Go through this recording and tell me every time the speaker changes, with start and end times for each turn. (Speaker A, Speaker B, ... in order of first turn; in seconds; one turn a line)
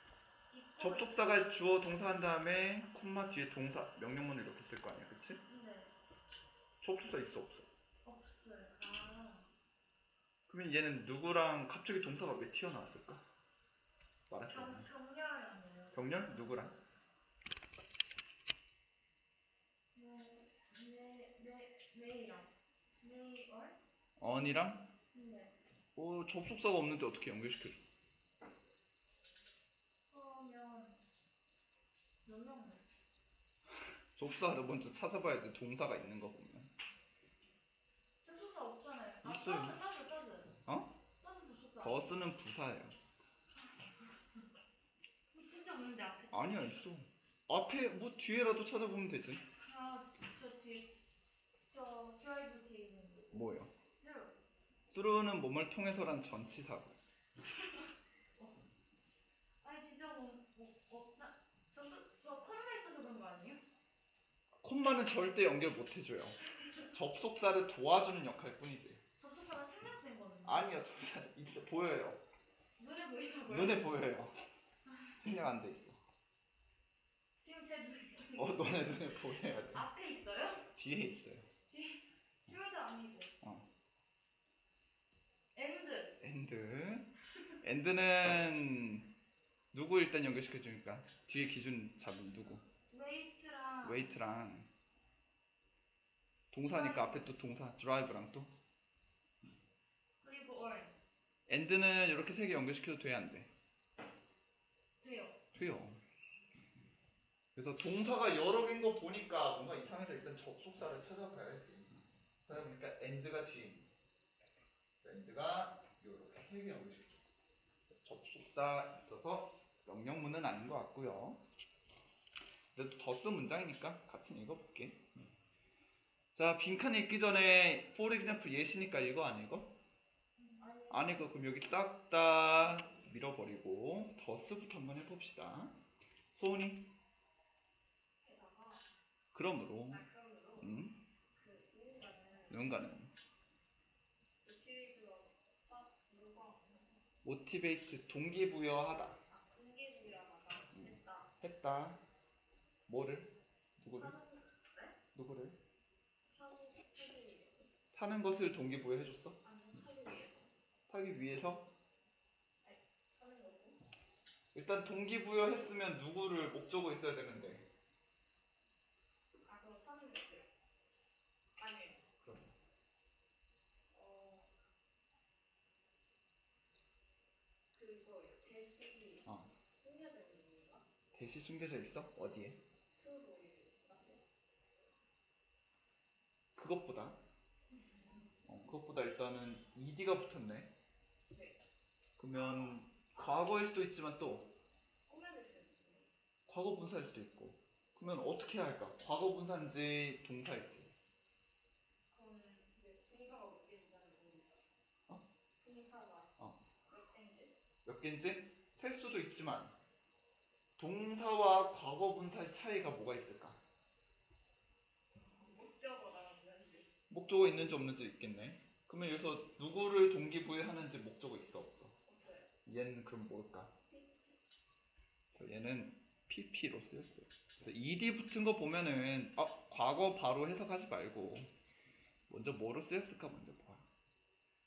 Speaker A: 0.5-1.5
Speaker B: 0.8-5.4
Speaker A: 5.5-5.9
Speaker B: 6.8-7.7
Speaker A: 8.0-9.5
Speaker B: 10.5-13.2
Speaker B: 14.3-14.9
Speaker A: 14.5-16.1
Speaker B: 15.9-16.8
Speaker A: 19.9-23.8
Speaker B: 24.2-24.9
Speaker A: 25.1-25.5
Speaker B: 25.9-27.8
Speaker A: 30.1-31.0
Speaker A: 32.2-32.8
Speaker B: 34.1-36.7
Speaker A: 38.2-40.5
Speaker B: 39.2-39.8
Speaker B: 40.6-41.0
Speaker A: 41.2-42.1
Speaker B: 41.8-43.0
Speaker A: 43.6-44.4
Speaker A: 45.3-46.8
Speaker B: 46.3-49.4
Speaker A: 49.6-50.9
Speaker A: 51.7-53.4
Speaker B: 53.3-53.7
Speaker A: 54.0-54.4
Speaker B: 54.9-57.0
Speaker A: 59.6-63.6
Speaker B: 64.6-66.4
Speaker B: 66.9-69.0
Speaker A: 69.2-70.7
Speaker B: 70.4-72.2
Speaker A: 72.8-73.9
Speaker B: 73.5-74.4
Speaker B: 75.2-76.0
Speaker A: 77.4-80.7
Speaker B: 78.3-79.8
Speaker B: 80.7-81.5
Speaker A: 81.7-83.3
Speaker B: 83.4-83.7
Speaker A: 85.5-86.2
Speaker B: 86.2-89.1
Speaker B: 89.7-92.6
Speaker A: 92.9-94.1
Speaker B: 93.8-94.7
Speaker B: 96.5-98.5
Speaker A: 96.7-97.3
Speaker A: 100.2-101.0
Speaker B: 101.5-103.5
Speaker A: 105.0-105.4
Speaker B: 105.5-106.0
Speaker B: 107.5-111.9
Speaker B: 112.5-113.9
Speaker B: 115.0-117.2
Speaker B: 117.9-121.4
Speaker B: 122.7-125.1
Speaker B: 126.3-129.7
Speaker A: 130.4-131.3
Speaker B: 130.9-135.8
Speaker B: 136.3-136.9
Speaker C: 138.2-138.9
Speaker B: 139.3-140.0
Speaker C: 139.9-140.8
Speaker B: 140.6-141.0
Speaker C: 141.3-142.7
Speaker B: 142.5-143.1
Speaker C: 144.4-147.0
Speaker B: 147.2-149.2
Speaker C: 149.3-151.3
Speaker B: 150.7-152.0
Speaker B: 152.9-154.2
Speaker C: 154.0-154.9
Speaker B: 155.1-155.6
Speaker C: 156.3-157.7
Speaker B: 157.9-159.4
Speaker C: 159.4-160.5
Speaker B: 160.9-161.7
Speaker C: 162.6-163.8
Speaker B: 164.5-167.7
Speaker C: 169.4-170.5
Speaker C: 171.6-172.0
Speaker B: 172.2-172.5
Speaker C: 173.9-174.5
Speaker C: 177.7-180.8
Speaker B: 179.2-179.5
Speaker B: 181.1-182.6
Speaker C: 182.9-184.2
Speaker B: 186.6-187.2
Speaker C: 187.8-188.2
Speaker B: 188.4-190.7
Speaker C: 191.3-191.6
Speaker B: 192.2-194.5
Speaker C: 192.4-193.5
Speaker C: 195.1-196.1
Speaker B: 196.5-200.9
Speaker C: 202.1-204.6
Speaker C: 205.6-206.3
Speaker C: 206.9-207.5
Speaker B: 207.8-209.7
Speaker B: 210.8-213.6
Speaker C: 215.2-216.9
Speaker B: 217.1-221.9
Speaker C: 222.1-222.5
Speaker B: 222.7-223.7
Speaker C: 223.9-224.3
Speaker B: 225.3-231.5
Speaker B: 232.3-233.9